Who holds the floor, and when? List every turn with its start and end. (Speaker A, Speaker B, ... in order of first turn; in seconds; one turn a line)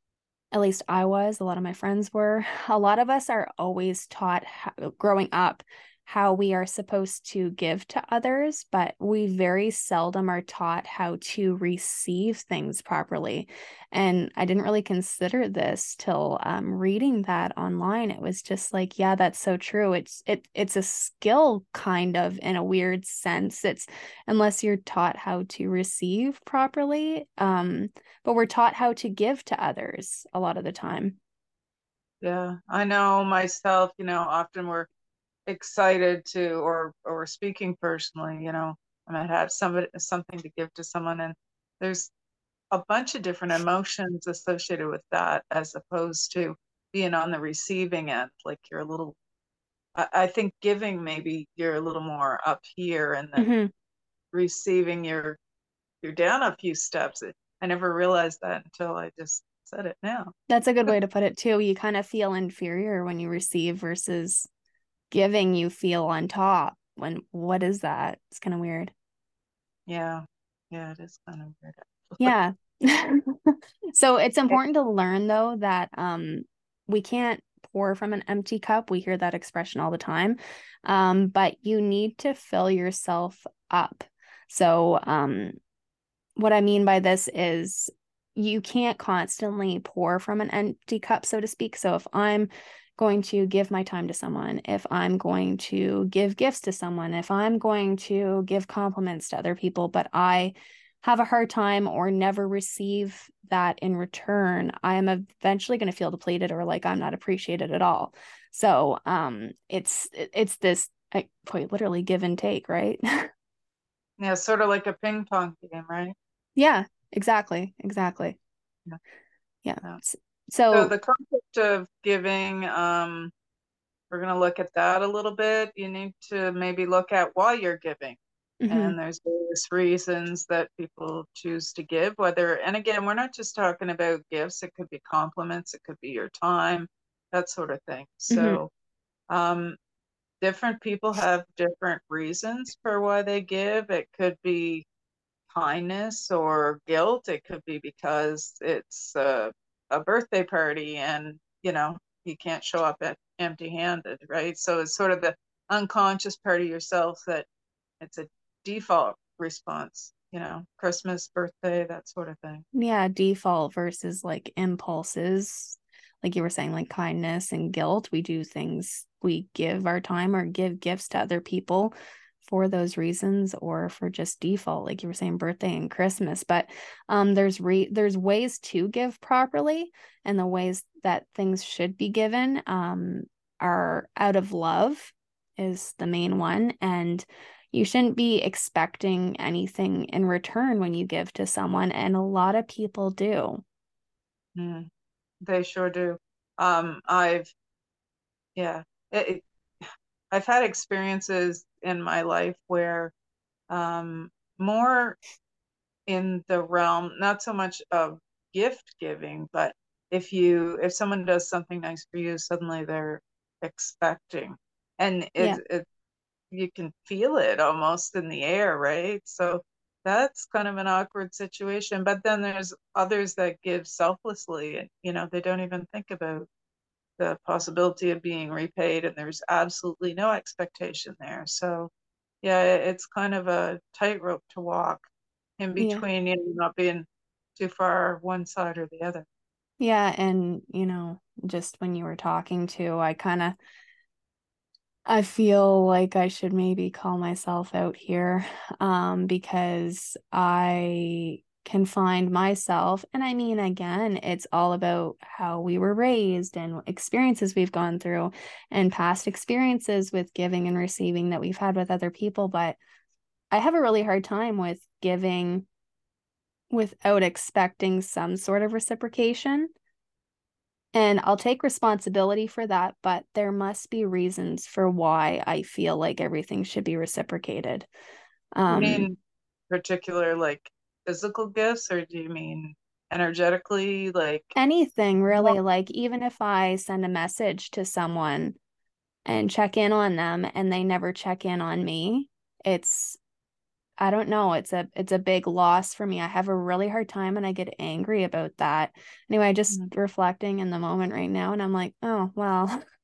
Speaker A: 0.5-31.2
Speaker B: 32.2-34.9
Speaker B: 35.5-42.1
Speaker B: 42.7-49.2
Speaker B: 50.0-53.5
Speaker A: 53.4-53.7
Speaker B: 54.3-55.4
Speaker B: 56.0-60.3
Speaker A: 60.5-64.5
Speaker A: 65.1-68.9
Speaker B: 69.9-72.3
Speaker A: 72.2-85.5
Speaker A: 86.4-113.3
Speaker B: 114.2-116.2
Speaker A: 116.6-118.4
Speaker A: 119.7-120.9
Speaker B: 120.7-123.3
Speaker B: 124.1-128.2
Speaker A: 128.6-128.9
Speaker B: 128.7-138.7
Speaker A: 138.3-138.6
Speaker B: 139.3-139.8
Speaker B: 140.4-144.9
Speaker B: 145.5-157.5
Speaker B: 158.0-162.6
Speaker A: 162.7-193.6
Speaker B: 194.6-194.9
Speaker B: 195.4-197.5
Speaker B: 198.6-199.4
Speaker B: 200.3-203.1
Speaker B: 203.7-205.2
Speaker B: 206.1-215.8
Speaker B: 216.5-226.5
Speaker B: 227.2-231.9
Speaker B: 232.4-235.1
Speaker B: 235.6-237.1
Speaker A: 235.8-236.1
Speaker B: 237.6-239.2
Speaker A: 239.8-243.6
Speaker A: 245.1-262.8
Speaker A: 263.5-265.7
Speaker A: 266.7-269.7
Speaker A: 270.9-277.9
Speaker A: 278.6-279.1
Speaker B: 278.7-279.2
Speaker B: 279.7-284.5
Speaker A: 284.6-288.6
Speaker B: 285.3-285.6
Speaker A: 289.3-293.2
Speaker A: 294.0-302.8